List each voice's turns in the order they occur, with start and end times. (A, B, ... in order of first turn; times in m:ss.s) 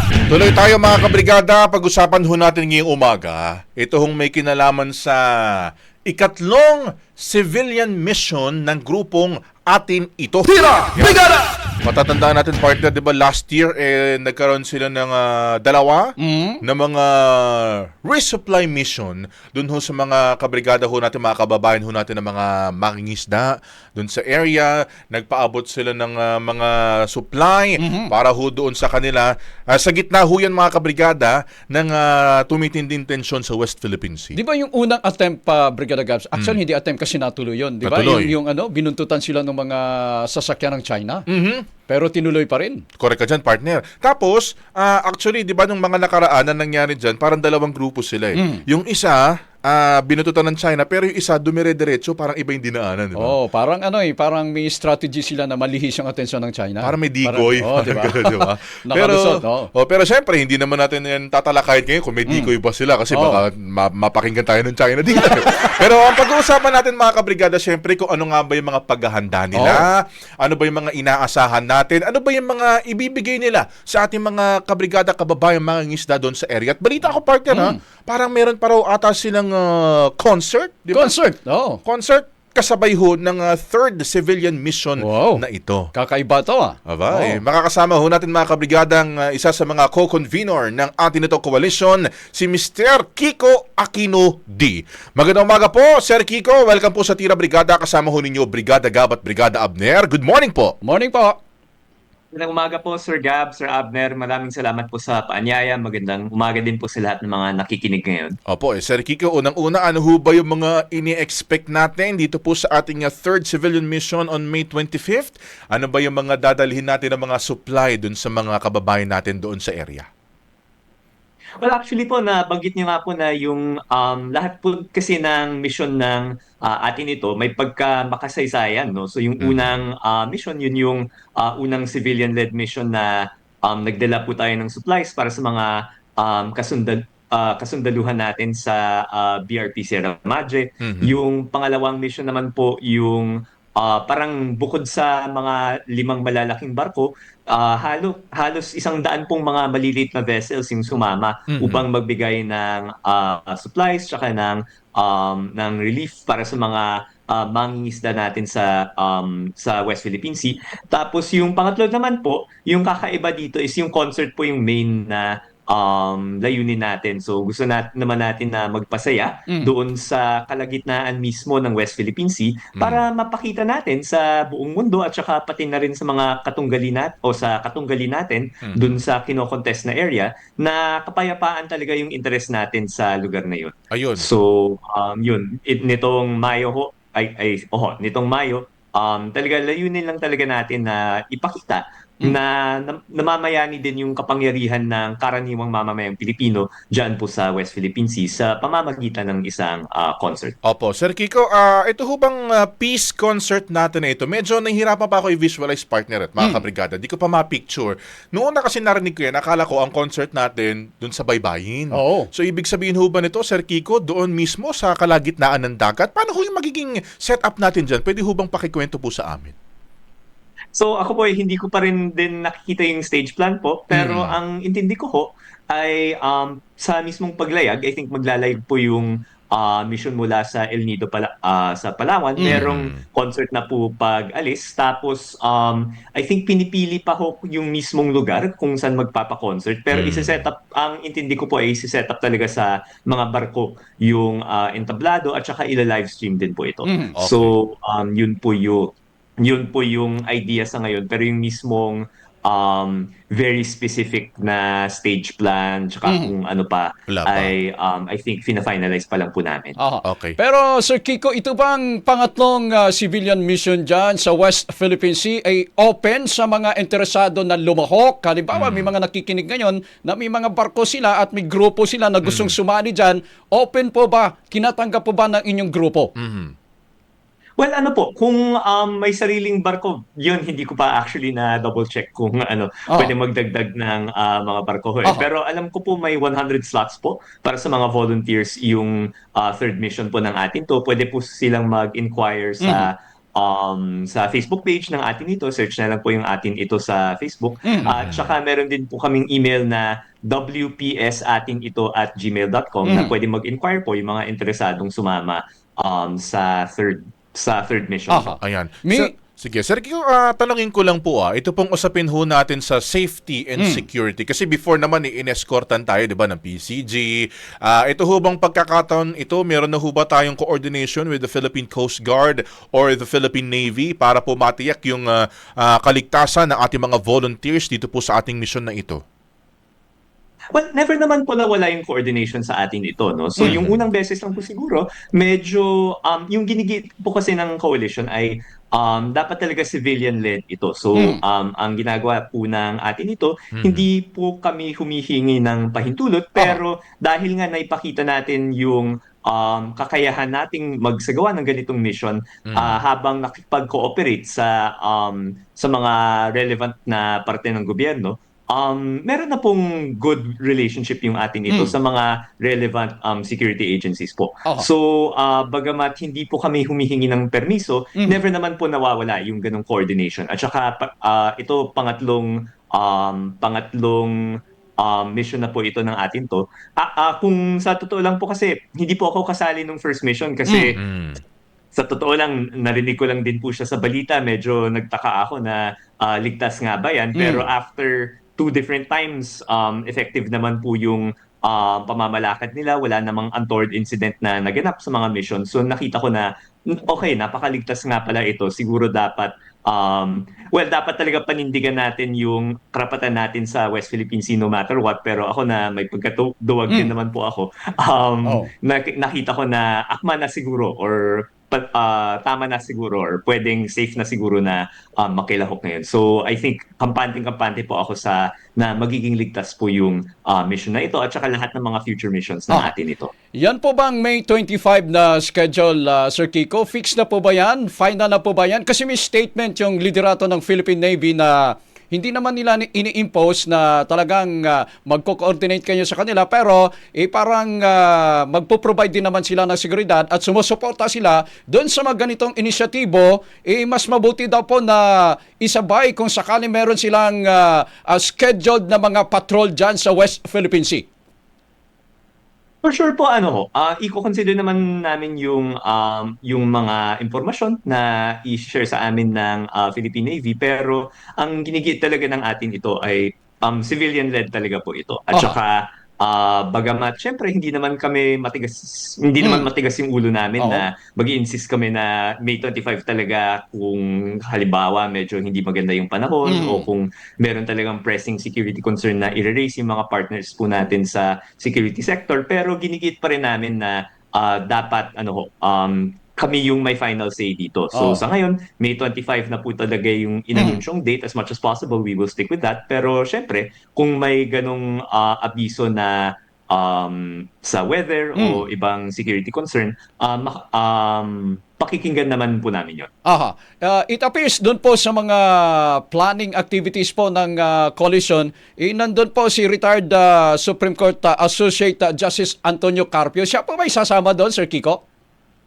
0:00.3-0:34.4 A
0:10.6-0:11.4 B
0:16.2-0:16.6 B
0:27.8-0:28.1 B
0:34.3-0:41.2 B
0:37.8-0:38.3 A
0:41.3-0:41.7 A
0:41.9-0:42.8 B
0:43.0-0:53.3 A
0:48.4-0:48.6 B
0:53.2-0:59.7 B
0:56.8-1:21.1 A
1:02.2-1:02.5 B
1:03.1-1:03.4 B
1:09.5-1:09.8 B
1:17.5-1:17.8 B
1:20.9-1:21.8 B
1:21.8-1:25.9 A
1:25.0-1:25.4 B
1:25.9-1:27.4 B
1:26.9-1:40.8 A
1:40.8-1:41.4 B
1:42.3-1:48.4 C
1:48.5-2:00.0 A
2:01.6-3:20.5 C
2:20.8-2:21.1 A
2:31.5-2:31.8 A
2:52.8-2:53.0 A
2:58.6-2:59.0 A
3:03.9-3:04.3 A
3:20.6-3:39.5 A
3:31.9-3:32.3 B
3:40.7-4:19.8 C
3:43.9-3:44.4 A
3:52.4-3:52.7 B
3:52.5-3:53.0 A
3:59.9-4:00.4 A
4:06.8-4:07.1 B
4:07.2-4:07.6 A
4:16.0-4:16.3 B
4:17.1-4:17.5 A
4:19.8-4:36.1 B
4:20.0-4:20.4 A
4:28.5-4:28.9 A
4:32.2-4:32.6 A
4:36.2-4:36.5 A
4:37.6-5:08.4 C
4:42.9-4:43.1 B
4:52.6-4:52.9 B
4:57.6-4:57.9 B
4:57.8-4:58.3 A
5:02.8-5:03.1 B
5:08.1-5:09.1 B
5:08.4-5:25.1 A
5:13.6-5:13.8 B
5:25.6-5:29.0 A
5:30.5-6:14.2 C
5:33.4-5:33.8 A
5:40.9-5:41.2 B
5:43.5-5:43.8 A
5:52.5-5:52.8 A
6:14.8-6:20.8 C
6:20.5-6:20.7 B
6:20.8-6:21.2 A
6:21.7-7:03.1 C
6:27.1-6:27.4 B
6:48.2-6:48.5 B
7:03.4-7:30.8 B
7:32.6-8:22.9 C
7:49.2-7:49.5 B
7:50.4-7:50.7 B
7:56.2-7:56.6 B
8:07.7-8:08.0 B
8:10.3-8:10.6 B
8:18.2-8:18.4 B
8:23.0-8:34.8 B